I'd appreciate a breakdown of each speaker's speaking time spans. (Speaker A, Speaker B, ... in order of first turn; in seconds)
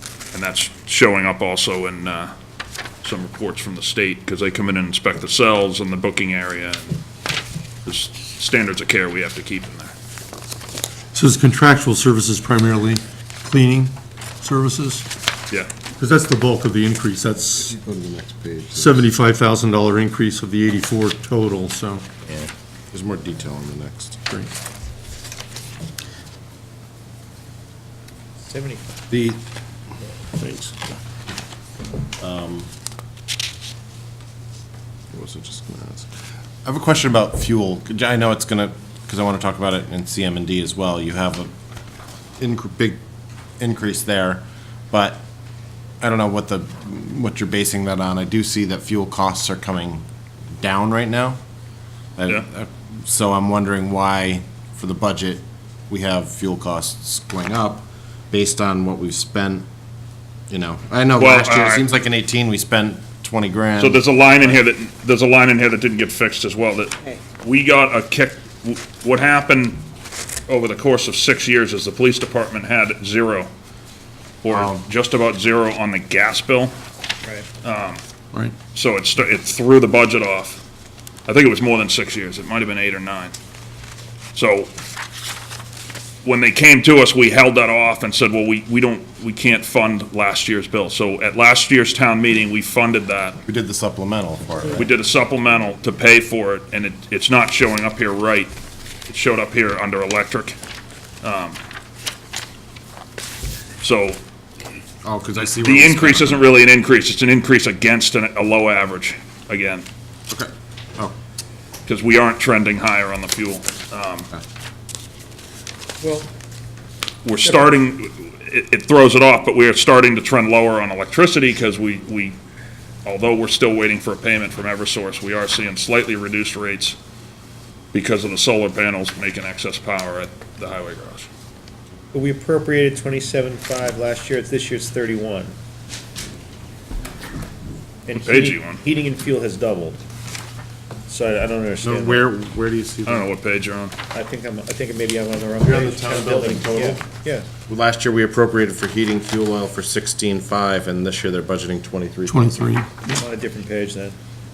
Speaker A: 0.3-2.3, 3.0-7.0, 7.8-9.9, 61.2-61.9, 63.8-69.8, 70.5-73.5, 74.4-76.7, 77.6-78.0, 78.7-80.6, 81.3-83.3, 84.3-84.7, 86.2-93.4, 94.7-98.5, 99.1-100.6, 101.2-101.6, 103.8-104.2, 105.5-109.8, 111.8-114.3, 117.2-122.4, 123.0-127.0, 127.9-131.3, 138.1-138.8, 143.1-143.9
Speaker B: 11.1-15.0, 16.0-17.7, 18.7-22.0, 152.3-153.2
Speaker C: 17.6-19.1, 22.9-24.2, 29.1-29.4, 32.2-32.7, 35.1-36.1, 36.6-41.5, 42.4-43.0, 43.6-45.2, 46.0-50.0, 50.6-51.4, 52.2-59.7, 60.5-64.0, 74.5-74.8, 93.5-94.9, 105.0-106.5, 110.3-111.1, 141.8-143.3, 145.6-147.0, 147.7-152.6
Speaker D: 28.5-28.9, 116.0-116.3, 132.1-135.5, 138.1-140.0, 141.1-142.2, 144.1-147.4, 153.1-154.2